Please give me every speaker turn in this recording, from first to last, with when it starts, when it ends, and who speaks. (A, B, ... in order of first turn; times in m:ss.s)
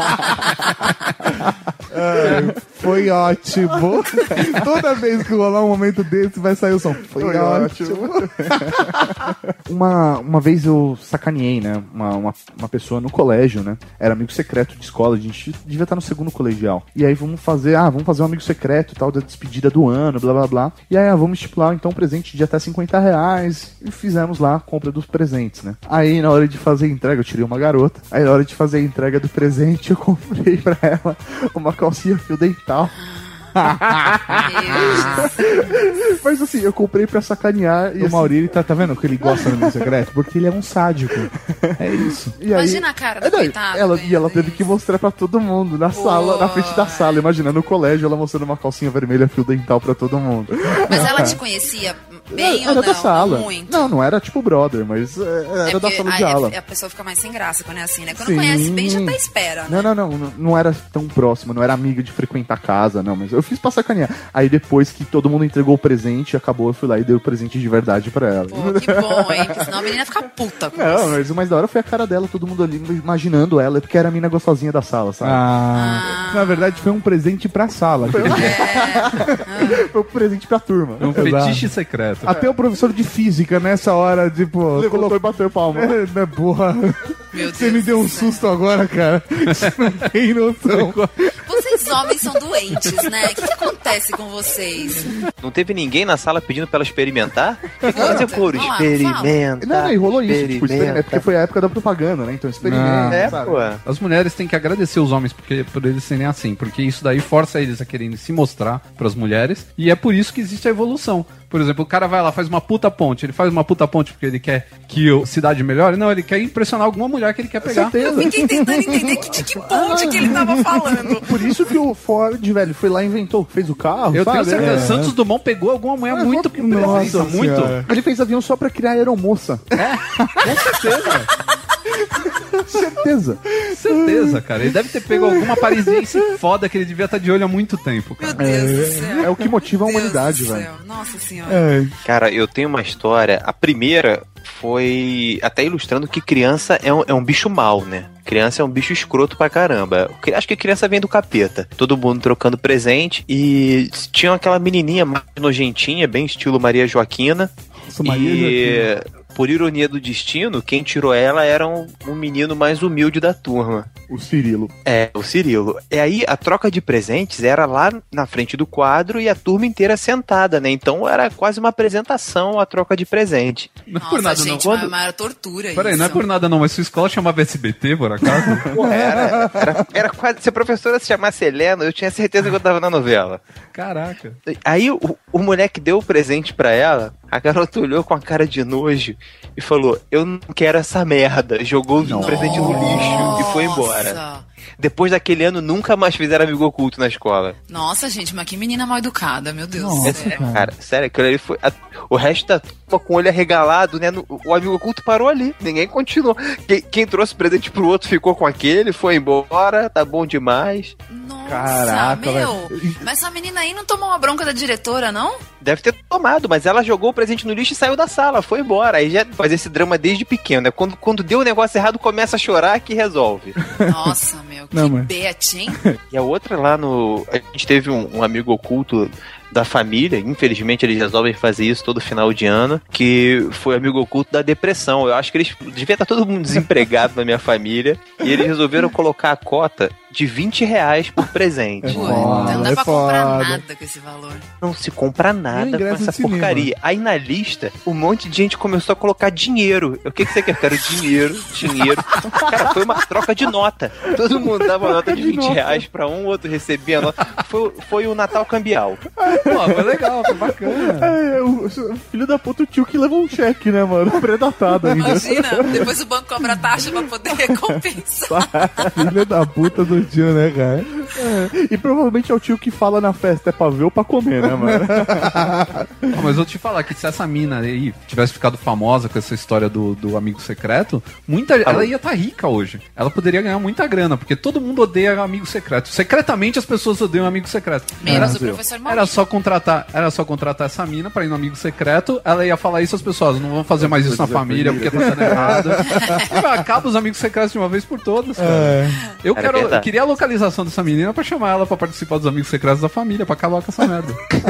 0:01.9-0:09.1 A
0:02.1-0:02.5 B
0:04.2-0:04.6 B
0:07.2-0:32.9 B
0:33.0-0:33.5 C
0:33.6-0:34.2 A
0:33.9-0:38.3 B
0:34.3-0:35.4 C
0:38.0-0:42.4 A
0:39.3-0:39.8 B
0:42.4-0:51.4 B
0:42.5-0:44.6 C
0:45.9-0:47.2 C
0:50.8-0:53.9 C
0:52.3-0:56.5 B
0:55.6-0:59.9 C
0:58.2-1:09.6 B
1:08.5-1:11.2 C
1:10.7-1:15.4 B
1:15.2-1:18.6 A
1:15.7-1:16.9 C
1:18.1-1:21.3 B
1:18.3-1:19.9 C
1:21.0-1:22.3 D
1:21.1-1:21.7 A
1:22.2-1:25.2 A
1:22.3-1:22.5 B
1:24.7-1:25.9 B
1:25.7-1:31.0 A
1:27.3-1:28.5 C
1:30.8-1:31.0 D
1:31.4-1:35.1 C
1:35.4-1:41.2 E
1:37.8-1:39.4 C
1:39.6-1:43.6 B
1:42.6-1:43.4 A
1:43.1-1:43.8 E
1:43.8-1:58.0 D
1:57.6-2:05.0 B
1:58.0-2:01.3 C
2:04.1-2:07.8 D
2:04.5-2:05.2 A
2:06.1-2:09.7 B
2:06.3-2:07.9 A
2:09.8-2:11.3 D
2:12.6-2:13.6 B
2:13.7-2:18.4 D
2:14.1-2:14.4 B
2:18.2-2:21.7 C
2:18.4-2:19.4 A
2:19.2-2:20.7 B
2:21.5-2:21.9 A
2:22.0-2:37.5 E
2:37.8-2:38.9 A
2:38.0-2:43.9 E
2:44.1-2:44.7 B
2:44.8-2:53.7 E
2:53.9-2:54.9 D
2:54.0-2:56.2 C
2:55.7-2:58.7 D
2:58.7-3:03.4 E
2:58.8-2:59.7 A
3:03.7-3:04.4 D
3:04.5-3:14.2 E
3:12.0-3:13.0 B
3:12.1-3:14.4 C
3:12.5-3:12.8 A
3:14.8-3:17.6 E
3:17.7-3:20.4 C
3:19.8-3:20.7 A
3:20.0-3:31.0 E
3:31.1-3:35.4 C
3:31.4-3:33.0 B
3:35.6-3:43.6 E
3:43.8-3:45.8 C
3:44.7-3:45.1 A
3:46.1-4:02.5 E
4:01.8-4:03.6 A
4:01.8-4:04.4 C
4:04.6-4:19.0 E
4:05.5-4:06.7 A
4:14.3-4:15.8 B
4:19.2-4:25.8 B
4:19.4-4:21.1 D
4:25.0-4:28.4 C
4:28.3-4:29.0 B
4:28.9-4:31.0 A
4:31.1-4:35.8 B
4:34.5-4:35.7 A
4:36.1-5:04.2 D
4:48.0-4:49.2 C
4:48.0-4:48.6 B
4:48.0-4:48.4 A
4:53.8-4:55.9 B
4:55.0-4:56.2 A
4:58.4-4:59.0 A
4:59.4-4:59.8 E